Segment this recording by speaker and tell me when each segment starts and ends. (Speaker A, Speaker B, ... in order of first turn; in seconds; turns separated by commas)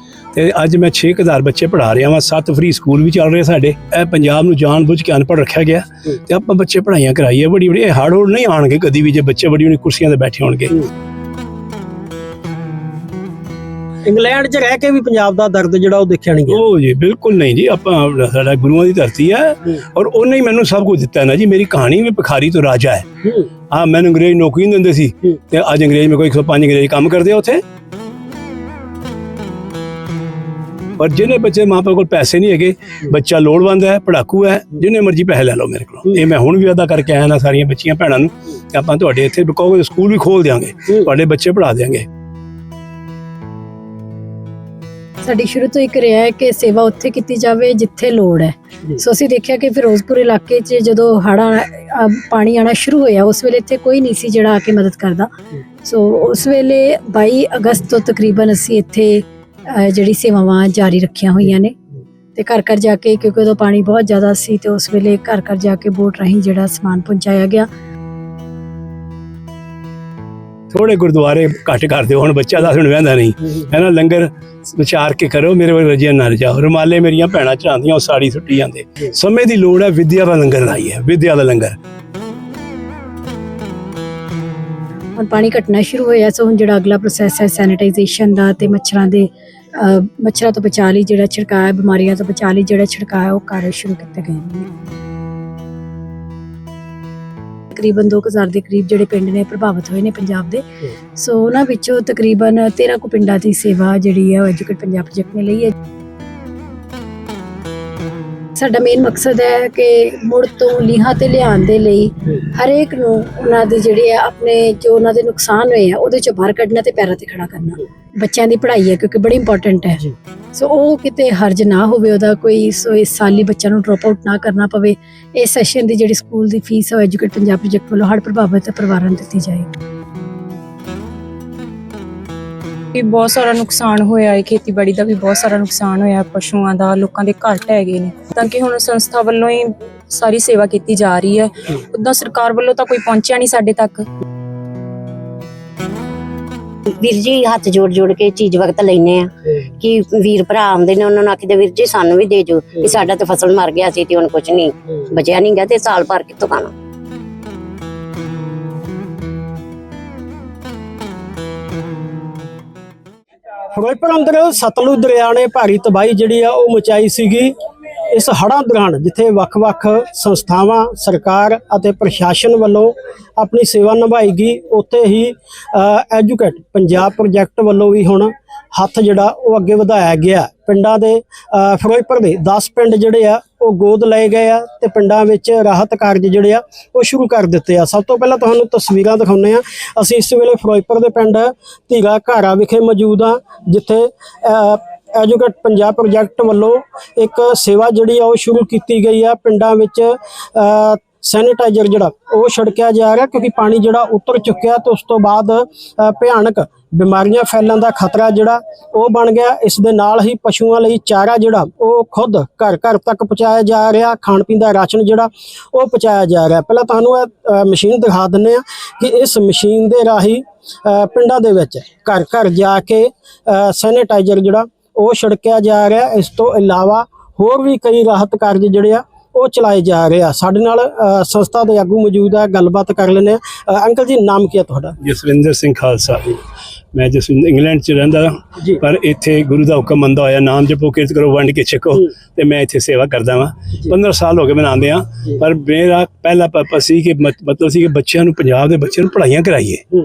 Speaker A: 0.3-10.8, Speaker B: 14.0-16.6, Speaker A: 16.5-23.1, Speaker A: 23.7-27.6, Speaker A: 31.0-42.0, Speaker C: 45.2-55.3, Speaker C: 55.8-61.8, Speaker C: 62.3-67.7, Speaker A: 70.7-81.8, Speaker C: 85.2-94.7, Speaker C: 97.7-100.6, Speaker C: 101.2-105.7, Speaker C: 108.5-129.7, Speaker D: 132.9-144.1, Speaker E: 146.9-156.7, Speaker B: 163.7-167.5, Speaker B: 168.1-234.9, Speaker A: 235.0-236.4, Speaker A: 236.9-249.8